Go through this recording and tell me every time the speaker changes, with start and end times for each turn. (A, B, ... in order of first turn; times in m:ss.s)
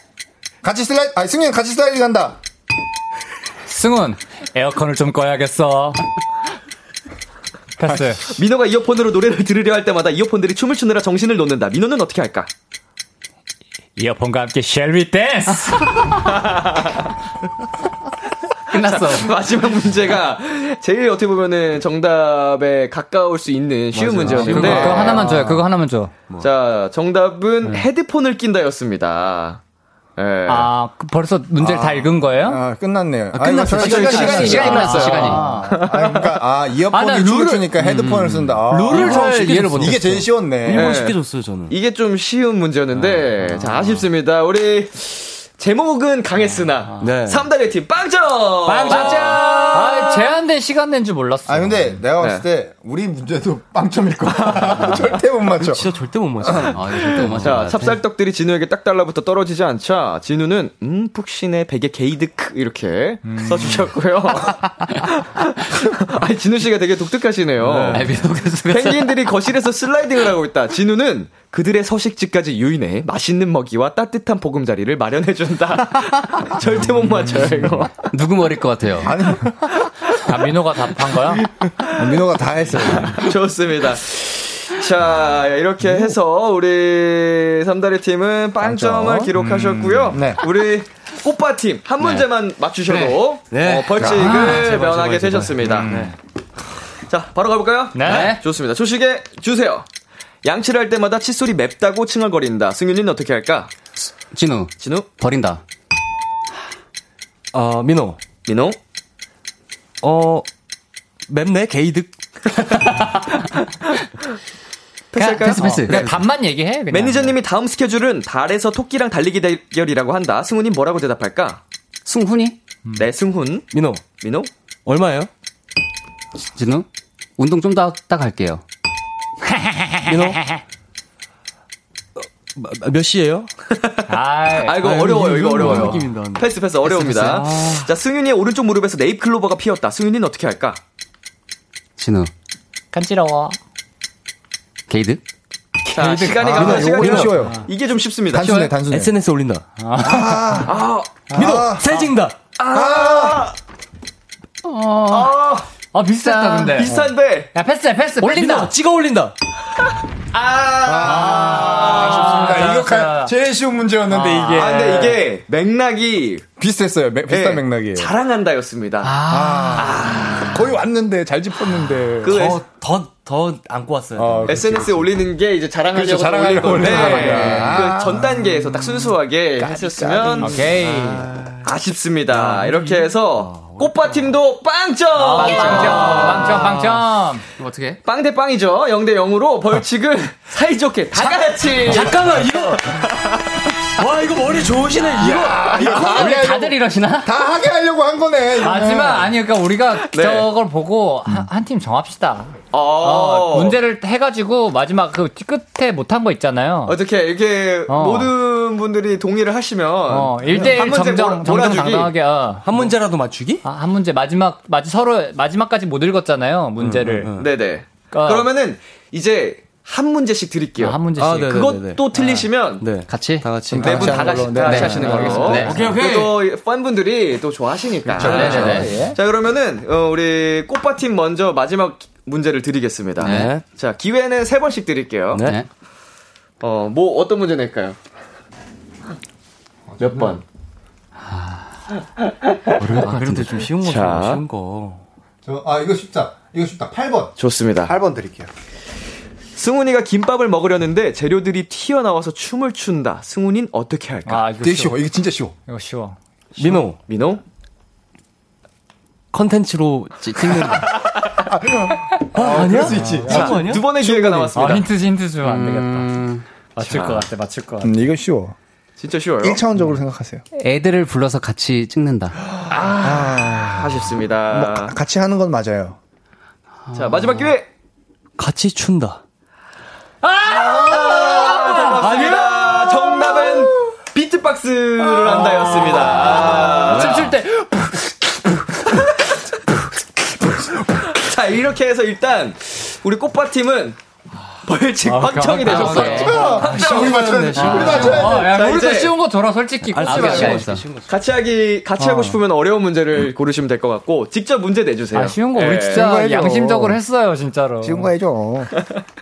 0:00.6-0:02.4 A
0:03.7-0:06.0 B
0:07.8-0:08.3 B
0:07.9-0:08.1 A
0:08.3-0:12.5 C
0:14.0-0:16.2 B
0:16.2-0:17.1 C
0:18.7-0:25.3 C
0:18.7-0:19.3 D
0:23.9-0:25.6 E
0:24.4-0:26.1 B
0:24.4-0:25.5 A
0:26.4-0:29.6 C
0:30.2-0:30.7 C
0:30.5-0:32.6 B
0:31.6-0:41.0 A
0:33.3-0:35.2 E
0:33.8-0:35.6 D
0:33.8-0:36.4 C
0:34.1-0:35.7 B
0:36.9-0:37.8 B
0:37.8-0:38.5 D
0:38.1-0:40.1 E
0:38.7-0:40.3 B
0:40.6-0:41.8 E
0:40.7-0:49.5 C
0:42.9-0:44.1 E
0:47.0-0:47.5 E
0:48.7-0:50.2 E
0:48.9-0:52.0 B
0:51.5-0:55.9 A
0:52.2-0:52.4 C
0:54.5-0:55.0 C
0:55.6-0:58.0 E
0:56.4-0:56.8 A
0:56.7-0:58.0 D
0:57.2-1:08.1 C
1:03.3-1:03.9 B
1:07.6-1:08.1 E
1:07.9-1:09.2 D
1:08.7-1:17.9 C
1:18.1-1:19.2 D
1:19.0-1:19.7 A
1:19.8-1:20.2 C
1:20.2-1:21.4 B
1:21.8-1:22.2 C
1:22.0-1:23.2 A
1:23.0-1:36.0 C
1:28.6-1:29.4 A
1:29.4-1:30.1 B
1:30.1-1:30.4 A
1:32.9-1:33.2 D
1:33.5-1:36.2 E
1:34.0-1:34.4 A
1:35.6-1:36.2 B
1:37.1-1:39.9 C
1:38.0-1:38.4 B
1:38.1-1:38.4 D
1:40.4-1:43.7 C
1:44.3-1:45.6 D
1:44.8-1:45.1 C
1:47.5-1:48.2 E
1:48.5-1:48.8 C
1:50.0-1:50.5 E
1:51.3-1:53.1 E
1:55.1-1:56.1 C
1:55.2-1:57.4 B
1:55.5-1:56.2 E
1:56.9-2:01.6 C
2:02.0-2:02.6 D
2:03.0-2:03.7 C
2:03.7-2:04.0 E
2:04.2-2:04.5 C
2:04.9-2:05.3 E
2:06.4-2:08.6 D
2:09.4-2:10.6 B
2:10.1-2:10.4 E
2:12.2-2:13.5 E
2:13.7-2:20.8 C
2:14.1-2:14.8 B
2:14.7-2:16.5 E
2:16.9-2:17.4 D
2:17.2-2:17.9 E
2:22.0-2:22.3 D
2:22.9-2:23.6 B
2:24.9-2:25.2 D
2:25.9-2:28.7 C
2:26.0-2:27.6 B
2:26.2-2:27.4 E
2:26.4-2:27.6 A
2:28.3-2:29.1 A
2:28.6-2:29.6 E
2:29.8-2:30.7 B
2:30.0-2:30.8 A
2:30.7-2:31.2 C
2:31.3-2:32.4 E
2:31.3-2:31.9 A
2:32.6-2:33.6 C
2:32.7-2:33.5 A
2:34.6-2:35.3 D
2:35.1-2:35.7 C
2:35.9-2:37.0 B
2:36.6-2:37.5 C
2:36.6-2:37.1 A
2:37.5-2:38.7 B
2:38.2-2:39.4 E
2:40.3-2:42.7 C
2:40.8-2:45.0 A
2:41.1-2:43.3 B
2:44.1-2:45.2 B
2:44.5-2:46.4 C
2:46.6-2:48.1 A
2:47.3-2:49.2 C
2:49.0-2:49.8 D
2:49.3-2:52.4 A
2:49.8-2:50.6 C
2:52.2-2:52.6 C
2:52.2-2:55.0 E
2:54.2-2:55.0 A
2:54.5-3:00.6 C
2:55.9-3:01.5 A
2:56.9-2:57.8 B
3:00.4-3:01.3 B
3:01.6-3:06.6 C
3:02.3-3:04.3 E
3:05.2-3:07.4 B
3:05.4-3:06.5 D
3:05.8-3:07.0 E
3:07.6-3:08.0 D
3:08.0-3:12.2 C
3:11.8-3:13.1 E
3:12.8-3:13.5 C
3:14.0-3:15.8 E
3:15.2-3:19.3 A
3:15.7-3:16.1 C
3:15.9-3:17.3 B
3:18.6-3:27.0 B
3:20.0-3:20.5 C
3:22.7-3:23.8 C
3:26.9-3:32.2 C
3:27.9-3:28.3 B
3:30.1-3:32.7 B
3:32.6-3:33.6 E
3:33.6-3:37.3 B
3:36.8-3:37.5 E
3:37.4-3:42.9 C
3:38.1-3:38.5 B
3:40.8-3:42.5 B
3:41.2-3:42.2 E
3:42.8-3:46.4 E
3:43.1-3:43.5 D
3:43.7-3:45.7 A
3:43.8-3:55.4 C
3:44.6-3:45.9 D
3:44.6-3:45.8 B
3:48.1-3:49.2 A
3:48.2-3:48.9 E
3:48.2-3:49.1 D
3:53.2-3:53.5 D
3:53.2-3:53.6 E
3:55.3-3:55.6 E
3:56.6-3:58.0 C
3:59.9-4:00.4 A
4:00.0-4:00.4 C
4:01.3-4:01.6 D
4:02.8-4:05.0 E
4:02.9-4:03.6 D
4:03.8-4:04.4 C
4:05.4-4:08.5 A
4:07.4-4:08.0 C
4:09.6-4:14.4 C
4:14.3-4:15.0 B
4:14.6-4:15.6 A
4:15.7-4:16.2 B
4:16.6-4:17.4 C
4:16.6-4:17.0 E
4:19.3-4:21.0 E
4:21.3-4:24.5 A
4:22.3-4:23.9 E
4:22.9-4:23.5 B
4:23.2-4:24.9 C
4:24.5-4:26.1 B
4:25.4-4:26.4 D
4:26.8-4:28.0 B
4:26.8-4:27.3 C
4:27.8-4:28.6 A
4:29.0-4:29.6 C
4:29.4-4:30.4 A
4:30.6-4:32.4 D
4:32.7-4:35.0 C
4:33.0-4:36.0 A
4:36.9-4:37.5 D
4:36.9-4:37.7 C
4:38.4-4:39.2 E
4:40.2-4:42.2 B
4:40.7-4:47.3 C
4:41.8-4:42.8 E
4:45.4-4:46.8 A
4:46.1-4:48.1 B
4:46.9-4:47.2 E
4:48.9-4:49.3 C
4:50.9-4:54.0 C
4:54.6-4:59.2 C
4:55.0-4:56.6 B
4:55.7-4:58.6 A
4:55.9-4:58.3 E
4:57.6-5:00.8 B
4:59.9-5:01.1 E
5:00.1-5:00.5 C
5:00.3-5:00.8 D
5:01.1-5:06.1 C
5:02.0-5:02.4 B
5:05.1-5:08.1 B
5:05.9-5:07.0 A
5:07.8-5:08.7 A